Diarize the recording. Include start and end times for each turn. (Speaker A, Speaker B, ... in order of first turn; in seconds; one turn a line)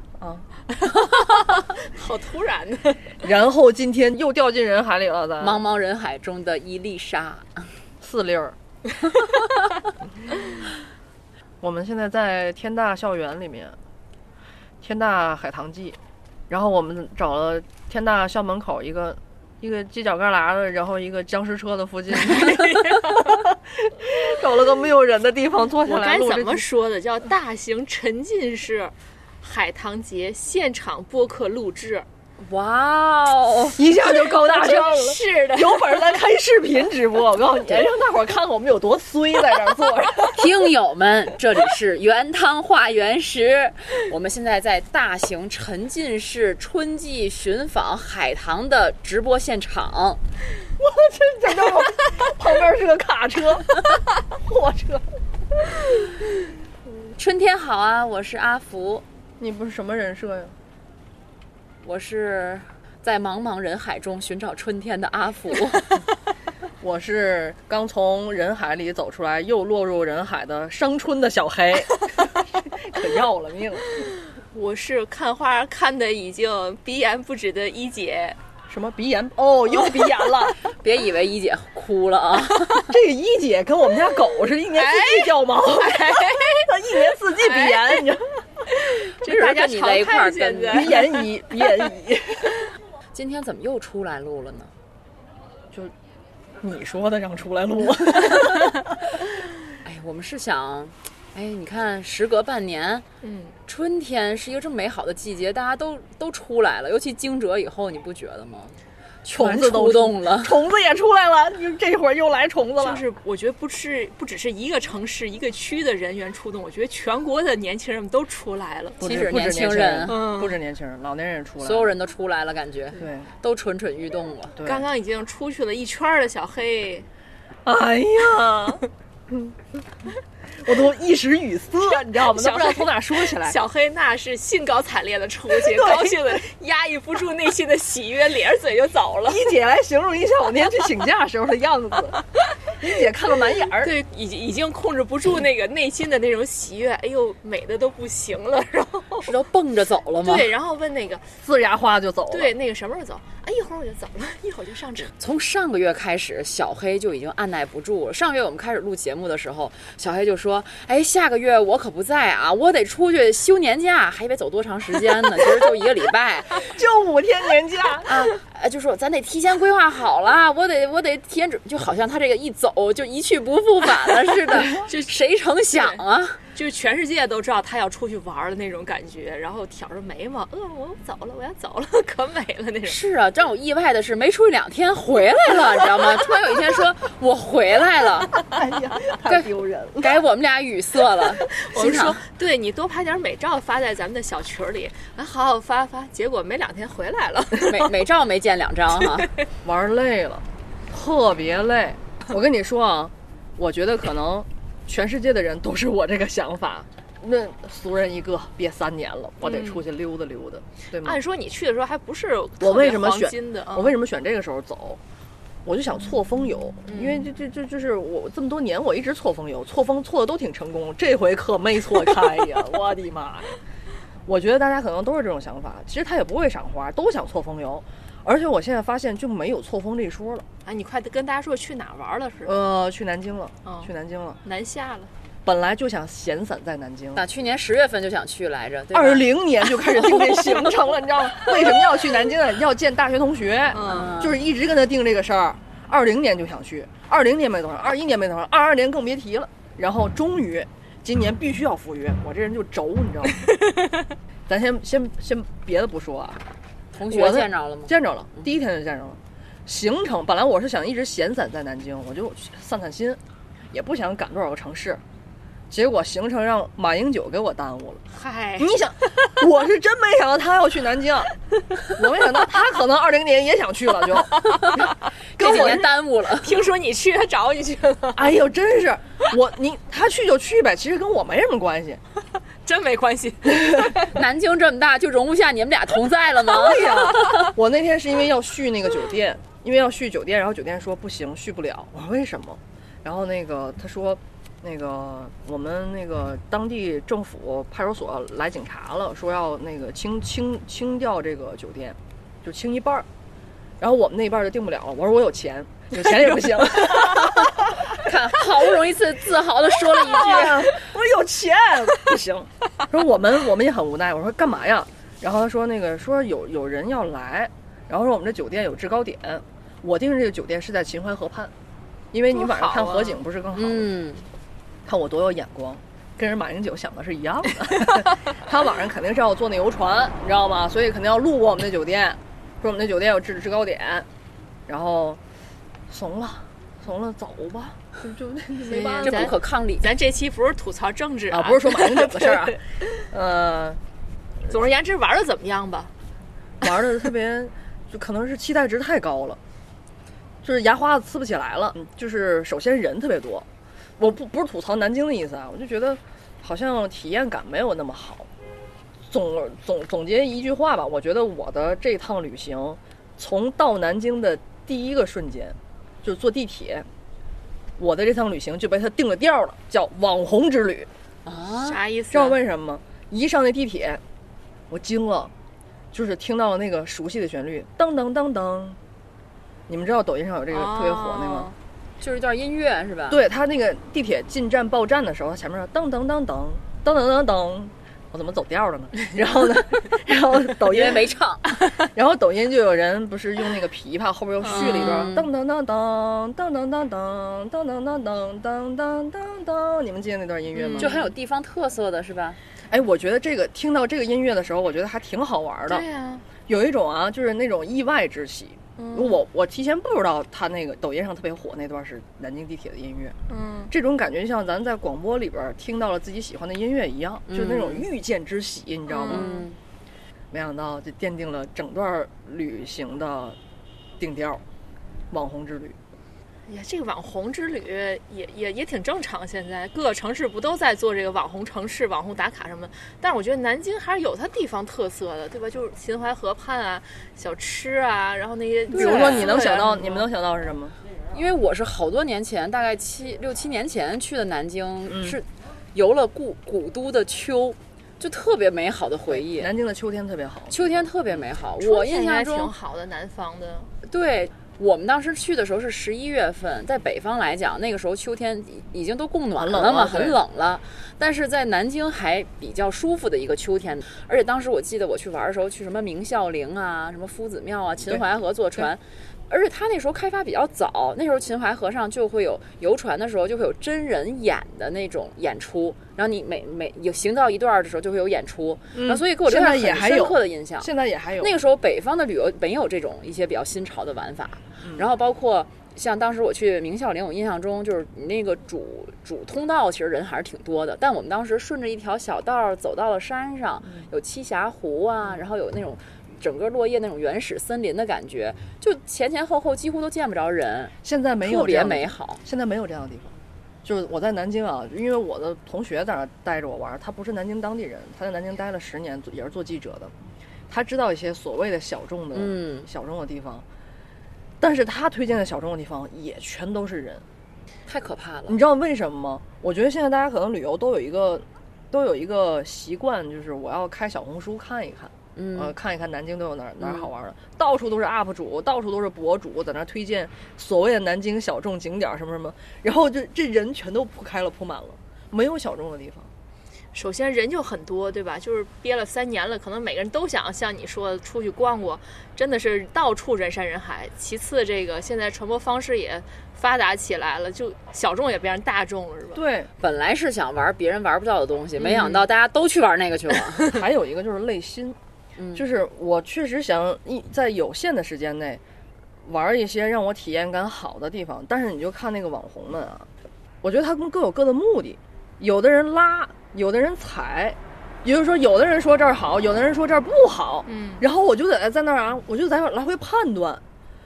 Speaker A: 0.2-0.5
Speaker B: 0.7-3.2
Speaker A: 3.2-5.6
Speaker C: 5.4-7.7
Speaker A: 8.0-8.6
Speaker A: 11.6-13.8
Speaker A: 14.8-16.0
Speaker A: 16.5-26.6
Speaker B: 22.2-23.3
Speaker B: 25.9-32.0
Speaker C: 32.4-33.8
Speaker A: 33.8-40.5
Speaker B: 34.1-36.1
Speaker C: 40.3-50.2
Speaker A: 50.8-53.8
Speaker A: 54.3-55.0
Speaker C: 57.2-59.0
Speaker A: 59.4-60.5
Speaker C: 61.8-66.0
Speaker A: 66.8-73.8
Speaker B: 74.5-78.4
Speaker A: 78.7-80.6
Speaker B: 79.8-80.2
Speaker C: 80.8-82.9
Speaker A: 82.9-88.4
Speaker B: 84.7-86.7
Speaker B: 87.3-88.1
Speaker B: 88.7-91.3
Speaker C: 89.2-90.9
Speaker A: 90.7-92.6
Speaker C: 93.1-94.7
Speaker A: 96.6-99.2
Speaker C: 99.8-103.0
Speaker B: 103.2-103.5
Speaker C: 103.7-110.5
Speaker A: 109.3-113.0
Speaker B: 112.8-119.0
Speaker A: 119.0-121.9
Speaker C: 119.0-120.2
Speaker B: 120.1-120.5
Speaker C: 121.6-124.6
Speaker A: 123.0-123.3
Speaker A: 124.6-124.8
Speaker B: 124.6-127.0
Speaker A: 127.6-129.6
Speaker A: 130.6-133.6
Speaker B: 131.8-139.4
Speaker A: 135.5-136.4
Speaker A: 139.3-142.2
Speaker A: 142.8-143.9
Speaker B: 143.8-149.3
Speaker C: 149.2-150.5
Speaker B: 150.2-151.3
Speaker A: 151.4-152.5
Speaker B: 152.3-155.1
Speaker C: 155.2-166.7
Speaker A: 166.7-168.1
Speaker C: 168.1-176.4
Speaker B: 174.6-175.2
Speaker B: 175.7-176.0
Speaker B: 176.5-183.0
Speaker C: 182.8-188.3
Speaker A: 188.4-190.1
Speaker C: 190.0-192.2
Speaker B: 191.5-198.0
Speaker C: 197.7-199.3
Speaker B: 199.0-199.3
Speaker A: 199.6-211.2
Speaker B: 209.4-209.8
Speaker B: 211.0-213.9
Speaker A: 212.6-215.0
Speaker A: 215.6-223.5
Speaker B: 216.9-217.2
Speaker A: 224.3-230.4
Speaker B: 230.7-232.5
Speaker A: 232.4-234.4
Speaker B: 233.6-233.9
Speaker B: 234.4-235.1
Speaker A: 235.4-237.2
Speaker C: 237.1-239.2
Speaker A: 238.9-253.3
Speaker B: 240.1-240.7
Speaker B: 241.4-241.9
Speaker B: 243.7-244.1
Speaker C: 243.8-244.3
Speaker B: 253.7-254.1
Speaker A: 254.5-256.4
Speaker C: 256.9-258.4
Speaker A: 257.1-263.2
Speaker A: 263.7-265.0
Speaker A: 265.7-268.0
Speaker B: 268.1-269.1
Speaker A: 268.6-271.3
Speaker A: 271.9-274.9
Speaker C: 275.4-276.5
Speaker A: 275.4-275.9
Speaker B: 276.4-278.4
Speaker A: 278.1-282.0
Speaker B: 282.6-284.1
Speaker A: 283.5-283.8
Speaker C: 284.0-286.9
Speaker A: 286.5-303.1
Speaker A: 303.8-308.0
Speaker C: 307.9-310.7
Speaker A: 309.7-321.5
Speaker A: 322.1-323.9
Speaker B: 322.3-323.2
Speaker C: 323.6-324.2
Speaker A: 324.9-334.1
Speaker A: 334.7-335.2
Speaker A: 335.9-339.3
Speaker B: 338.6-342.8
Speaker C: 339.0-339.9
Speaker A: 341.3-343.8
Speaker B: 344.5-345.9
Speaker A: 346.6-349.4
Speaker A: 350.4-353.5
Speaker A: 354.0-358.3
Speaker A: 359.1-366.9
Speaker A: 367.8-370.9
Speaker C: 371.2-371.8
Speaker B: 371.6-372.4
Speaker A: 372.1-374.0
Speaker A: 374.7-375.3
Speaker A: 375.9-378.8
Speaker A: 379.7-381.5
Speaker B: 380.5-381.5
Speaker C: 382.0-383.2
Speaker A: 383.1-391.1
Speaker C: 390.6-391.4
Speaker A: 391.9-401.0
Speaker B: 394.4-395.0
Speaker C: 394.5-395.2
Speaker B: 400.5-401.0
Speaker C: 400.8-402.4
Speaker A: 402.7-405.8
Speaker B: 405.7-406.2
Speaker A: 406.4-413.1
Speaker B: 408.8-409.2
Speaker B: 413.3-413.7
Speaker A: 413.7-419.3
Speaker C: 417.3-417.9
Speaker B: 418.9-419.4
Speaker C: 419.1-419.6
Speaker A: 420.3-423.4
Speaker A: 424.0-424.4
Speaker A: 425.1-425.8
Speaker B: 426.5-440.1
Speaker A: 438.7-440.7
Speaker C: 438.7-439.3
Speaker C: 441.1-449.5
Speaker A: 444.9-445.2
Speaker A: 449.1-450.9
Speaker C: 450.5-452.5
Speaker B: 451.6-453.7
Speaker C: 453.9-480.7
Speaker A: 459.4-460.2
Speaker A: 478.7-481.3
Speaker C: 481.2-502.2
Speaker A: 484.6-484.9
Speaker A: 500.8-509.9
Speaker A: 510.5-513.4
Speaker C: 512.1-512.7
Speaker A: 514.4-517.0
Speaker C: 517.7-518.4
Speaker A: 518.3-536.1
Speaker C: 525.1-525.5
Speaker C: 526.6-526.9
Speaker B: 536.7-549.2
Speaker A: 549.1-549.5
Speaker C: 549.6-553.5
Speaker B: 551.6-552.0
Speaker A: 553.5-554.8
Speaker C: 555.2-555.4
Speaker A: 555.3-558.4
Speaker A: 559.0-562.9
Speaker A: 563.4-573.4
Speaker B: 570.5-570.8